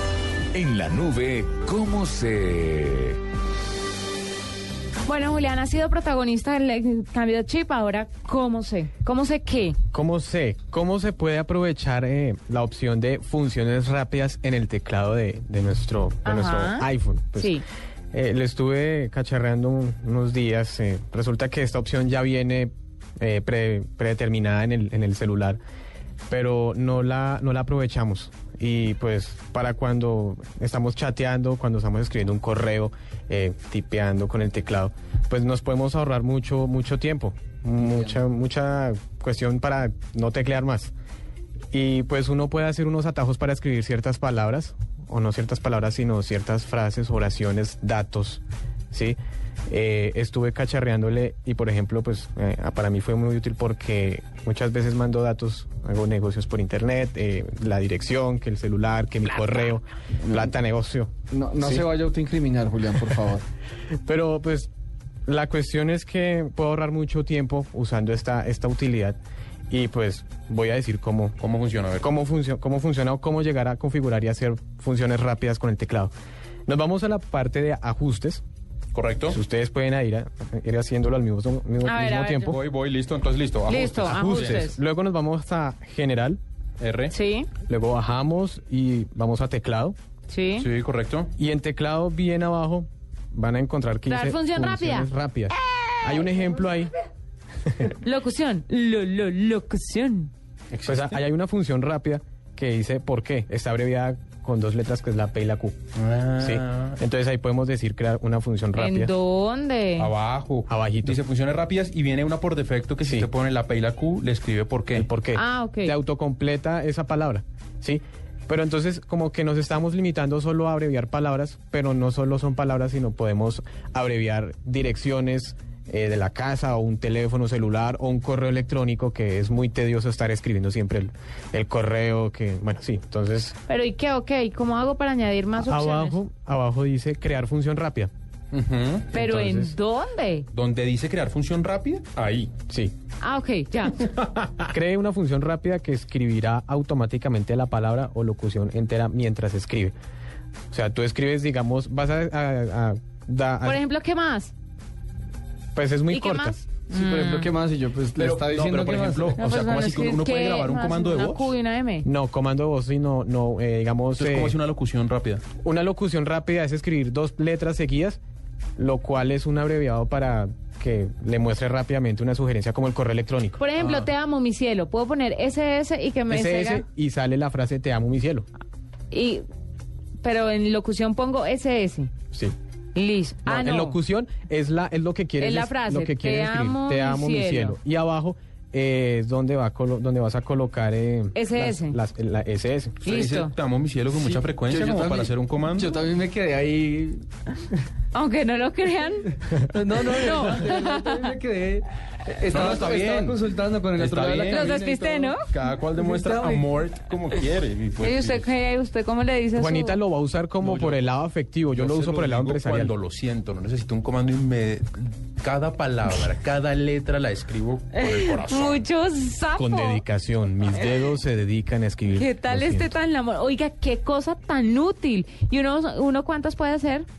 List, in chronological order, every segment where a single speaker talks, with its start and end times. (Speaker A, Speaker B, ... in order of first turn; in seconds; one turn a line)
Speaker A: 0.5-3.1
Speaker B: 5.1-9.8
Speaker C: 9.9-17.6
Speaker B: 16.2-17.6
Speaker C: 18.1-25.6
Speaker C: 26.3-40.9
Speaker D: 37.8-38.2
Speaker C: 41.7-49.2
Speaker C: 49.7-61.9
Speaker D: 60.2-60.5
Speaker D: 61.3-63.5
Speaker C: 64.1-64.7
Speaker C: 65.3-69.2
Speaker C: 69.7-71.4
Speaker E: 71.4-72.1
Speaker C: 72.0-76.1
Speaker C: 76.7-78.4
Speaker E: 78.9-79.4
Speaker C: 79.3-82.6
Speaker B: 81.8-82.5
Speaker E: 82.5-84.7
Speaker B: 83.7-84.8
Speaker C: 84.1-86.4
Speaker E: 86.8-87.1
Speaker B: 87.1-87.5
Speaker C: 87.7-90.0
Speaker B: 90.3-90.7
Speaker E: 90.6-91.3
Speaker C: 91.4-96.9
Speaker B: 94.1-95.1
Speaker B: 95.6-96.3
Speaker B: 97.9-100.3
Speaker E: 100.7-101.2
Speaker C: 100.8-105.8
Speaker E: 106.0-107.0
Speaker C: 106.4-109.1
Speaker B: 108.8-110.1
Speaker E: 110.0-115.1
Speaker C: 110.7-111.2
Speaker C: 113.0-113.3
Speaker C: 115.0-133.6
Speaker B: 115.3-115.9
Speaker B: 133.7-136.2
Speaker C: 135.6-138.1
Speaker E: 138.5-139.1
Speaker C: 139.1-139.8
Speaker B: 139.1-140.5
Speaker E: 140.5-142.5
Speaker C: 142.7-142.9
Speaker B: 143.2-144.1
Speaker E: 144.0-144.7
Speaker C: 144.7-149.9
Speaker C: 150.7-153.8
Speaker B: 153.6-154.5
Speaker C: 155.8-156.6
Speaker B: 156.1-157.5
Speaker D: 156.9-159.4
Speaker E: 158.2-161.5
Speaker B: 159.4-162.1
Speaker C: 162.0-164.6
Speaker E: 164.1-165.4
Speaker C: 165.6-168.2
Speaker C: 168.8-173.6
Speaker B: 173.6-176.8
Speaker E: 173.8-174.1
Speaker C: 176.3-178.5
Speaker B: 179.1-179.4
Speaker B: 180.2-182.1
Speaker B: 182.9-184.0
Speaker C: 183.5-193.1
Speaker B: 185.4-187.8
Speaker B: 191.3-192.0
Speaker B: 193.0-193.5
Speaker E: 193.1-196.0
Speaker D: 194.1-197.8
Speaker B: 198.1-199.3
Speaker D: 199.5-205.4
Speaker B: 200.0-201.3
Speaker E: 202.5-203.4
Speaker E: 203.9-204.8
Speaker B: 204.5-205.4
Speaker E: 205.4-208.5
Speaker D: 206.0-206.7
Speaker B: 208.0-210.0
Speaker C: 209.6-212.9
Speaker E: 210.6-211.1
Speaker E: 211.7-218.8
Speaker B: 217.9-220.0
Speaker C: 219.6-223.0
Speaker B: 222.1-227.1